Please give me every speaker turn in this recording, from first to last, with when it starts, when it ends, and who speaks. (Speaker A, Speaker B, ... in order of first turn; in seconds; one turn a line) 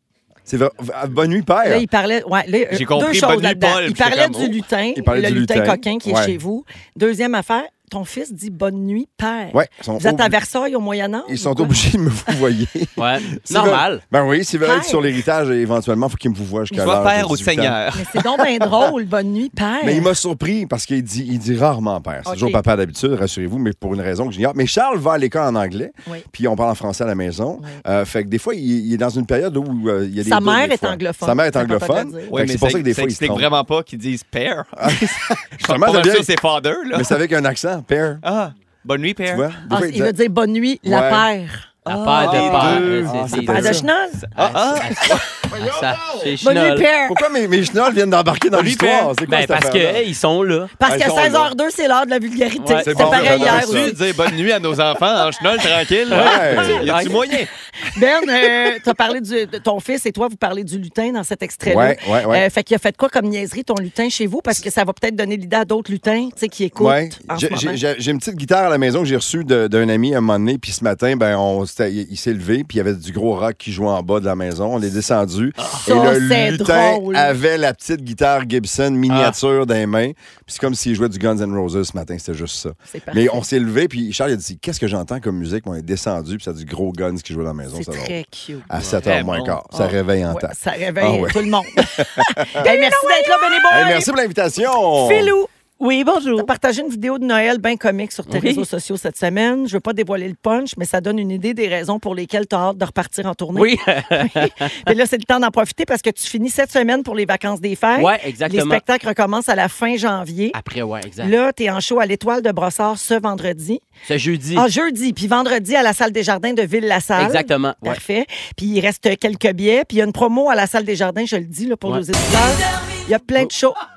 Speaker A: 0.5-1.8
Speaker B: 1.6-11.8
Speaker C: 2.7-4.6
Speaker A: 4.9-6.3
Speaker A: 9.5-10.3
Speaker A: 11.3-17.8
Speaker D: 13.0-14.0
Speaker B: 14.6-15.1
Speaker C: 16.7-18.2
Speaker B: 17.9-20.1
Speaker A: 19.8-33.5
Speaker B: 22.2-22.6
Speaker B: 30.2-32.3
Speaker C: 32.3-37.2
Speaker A: 34.8-36.3
Speaker A: 36.9-38.2
Speaker C: 38.2-39.5
Speaker A: 39.3-40.1
Speaker B: 39.7-41.7
Speaker A: 40.8-41.3
Speaker C: 41.8-43.1
Speaker D: 41.9-46.9
Speaker A: 42.1-46.3
Speaker B: 43.4-44.3
Speaker C: 44.4-45.0
Speaker B: 46.4-47.2
Speaker A: 47.1-50.0
Speaker C: 48.5-49.1
Speaker D: 49.2-50.7
Speaker B: 50.8-54.0
Speaker A: 50.8-51.5
Speaker D: 52.6-52.9
Speaker A: 52.8-54.0
Speaker C: 53.0-57.5
Speaker A: 56.1-56.9
Speaker D: 56.1-57.2
Speaker B: 57.9-67.8
Speaker A: 61.6-62.5
Speaker A: 66.8-88.1
Speaker B: 75.8-77.3
Speaker C: 79.1-79.3
Speaker B: 82.9-83.4
Speaker B: 87.7-88.7
Speaker A: 88.7-92.7
Speaker D: 88.8-89.0
Speaker C: 89.0-89.6
Speaker B: 89.7-94.1
Speaker D: 92.6-93.3
Speaker A: 93.7-95.3
Speaker B: 94.8-95.5
Speaker D: 95.8-96.5
Speaker B: 96.4-110.6
Speaker D: 98.3-98.7
Speaker D: 103.5-104.8
Speaker D: 108.0-108.8
Speaker D: 110.5-111.3
Speaker B: 111.2-113.8
Speaker D: 114.0-114.7
Speaker B: 114.5-123.8
Speaker D: 117.2-118.0